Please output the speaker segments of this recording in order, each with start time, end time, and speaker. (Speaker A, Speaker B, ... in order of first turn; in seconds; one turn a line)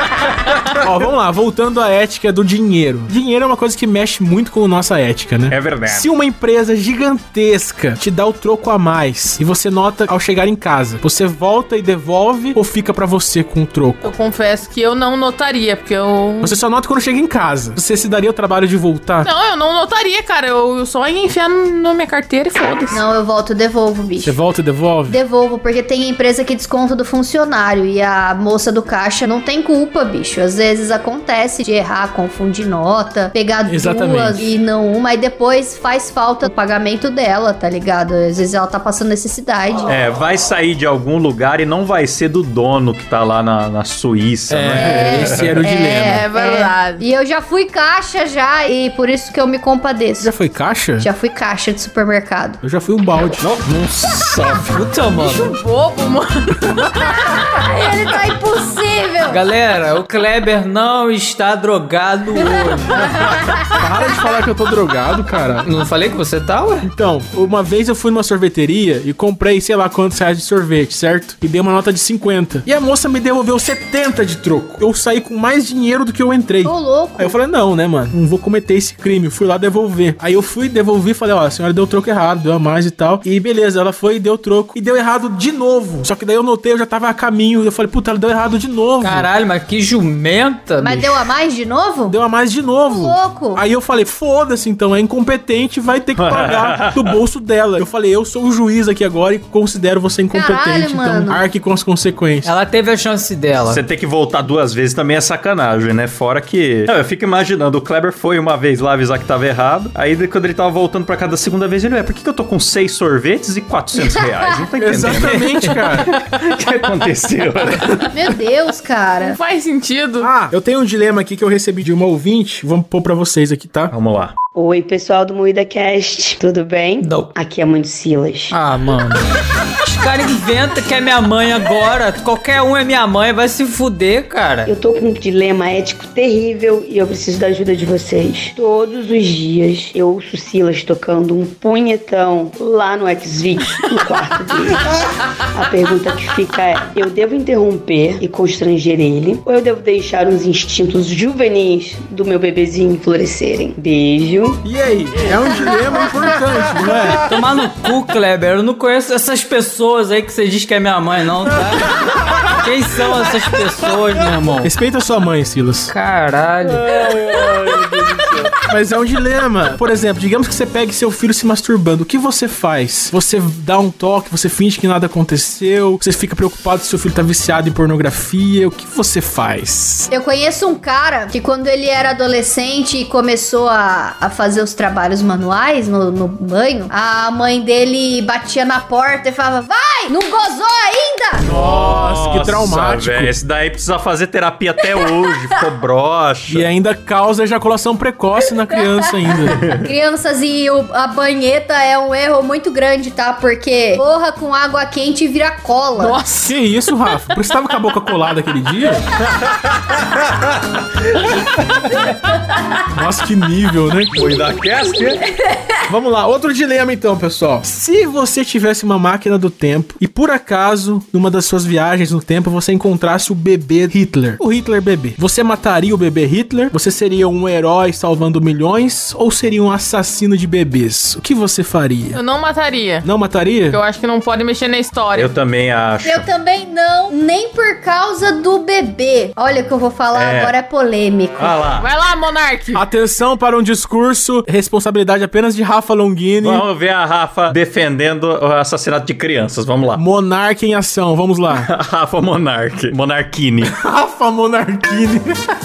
Speaker A: 0.4-0.8
Speaker B: 0.8-14.1
Speaker A: 5.5-6.1
Speaker C: 14.0-16.6
Speaker B: 16.4-19.3
Speaker C: 19.2-23.0
Speaker D: 22.9-24.4
Speaker B: 24.2-25.2
Speaker D: 25.1-39.9
Speaker B: 33.7-34.5
Speaker A: 39.9-45.5
Speaker E: 44.5-45.4
Speaker D: 44.8-50.3
Speaker B: 45.0-46.2
Speaker C: 46.0-47.0
Speaker B: 50.2-51.1
Speaker D: 51.0-52.6
Speaker B: 52.6-53.6
Speaker A: 53.4-54.8
Speaker E: 54.6-55.6
Speaker C: 55.2-57.0
Speaker D: 57.2-59.4
Speaker E: 59.2-63.2
Speaker B: 63.8-65.7
Speaker E: 65.6-66.9
Speaker B: 66.8-89.3
Speaker D: 76.7-77.4
Speaker E: 89.0-91.3
Speaker D: 90.8-92.2
Speaker B: 92.1-102.5
Speaker D: 92.9-93.6
Speaker A: 96.2-97.1
Speaker D: 100.3-101.4
Speaker E: 102.4-103.8
Speaker A: 103.6-118.1
Speaker B: 114.8-116.1
Speaker D: 118.1-119.4
Speaker C: 119.2-120.3
Speaker B: 120.2-123.9
Speaker A: 123.9-124.3
Speaker F: 124.5-128.6
Speaker E: 127.0-127.3
Speaker E: 128.5-129.2
Speaker E: 129.8-134.7
Speaker F: 134.7-154.6
Speaker B: 154.6-157.2
Speaker E: 157.3-161.9
Speaker E: 162.5-164.7
Speaker B: 164.6-165.9
Speaker E: 165.9-167.0
Speaker A: 166.8-168.5
Speaker B: 168.7-180.1
Speaker D: 180.1-191.5
Speaker B: 191.4-193.4
Speaker A: 191.4-196.7
Speaker B: 196.5-199.6
Speaker D: 198.8-206.2
Speaker A: 199.5-199.8
Speaker C: 206.0-206.6
Speaker B: 206.4-209.1
Speaker A: 209.2-212.1
Speaker B: 212.9-214.2
Speaker A: 214.1-215.2
Speaker B: 215.9-232.2
Speaker C: 232.1-233.1
Speaker B: 233.0-233.8
Speaker C: 233.7-235.3
Speaker A: 235.2-236.2
Speaker D: 236.0-241.6
Speaker A: 240.1-240.5
Speaker A: 241.4-241.9
Speaker C: 241.8-242.8
Speaker B: 242.7-246.7
Speaker A: 246.4-250.0
Speaker B: 249.9-251.7
Speaker A: 251.6-253.7
Speaker B: 253.6-255.4